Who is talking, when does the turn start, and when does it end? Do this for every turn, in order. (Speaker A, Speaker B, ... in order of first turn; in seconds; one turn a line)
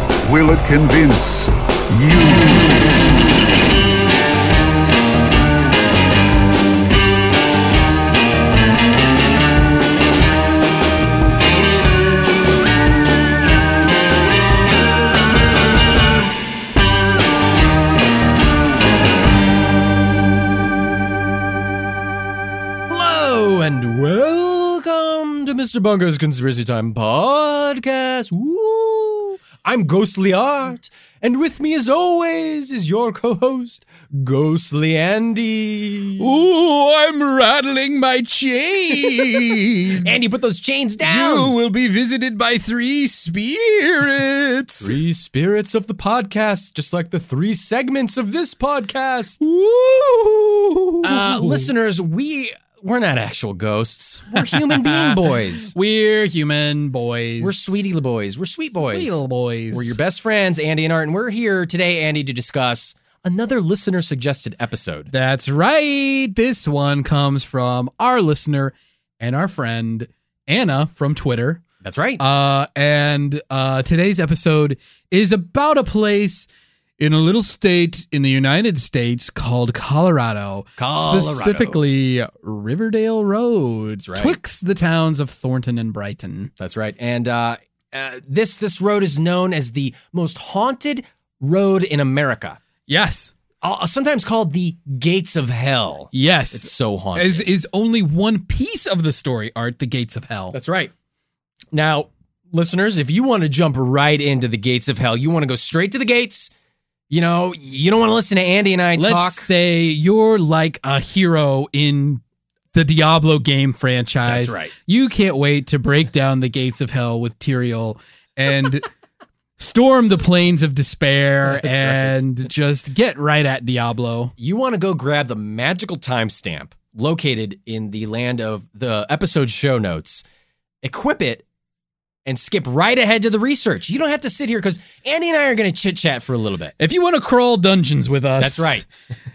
Speaker A: 0.2-2.7
Speaker B: 22.9-36.4
Speaker C: 36.2-40.2
Speaker B: 40.0-41.5
Speaker C: 41.0-44.9
Speaker B: 44.8-49.4
Speaker C: 49.4-51.7
Speaker B: 51.0-55.7
Speaker C: 54.4-57.9
Speaker B: 57.4-65.1
Speaker C: 58.9-60.0
Speaker C: 65.1-71.6
Speaker B: 71.8-72.2
Speaker C: 72.2-76.5
Speaker C: 77.0-86.5
Speaker B: 80.8-81.8
Speaker B: 84.0-84.4
Speaker B: 86.6-92.6
Speaker C: 92.9-93.3
Speaker B: 93.6-97.5
Speaker C: 96.1-100.5
Speaker B: 100.5-100.9
Speaker B: 101.7-106.5
Speaker B: 107.1-109.5
Speaker C: 109.0-112.2
Speaker C: 112.7-118.9
Speaker B: 114.2-114.7
Speaker C: 119.6-124.3
Speaker B: 121.4-122.2
Speaker B: 124.4-130.2
Speaker B: 130.8-131.4
Speaker B: 132.2-136.7
Speaker C: 136.8-138.8
Speaker B: 138.4-138.9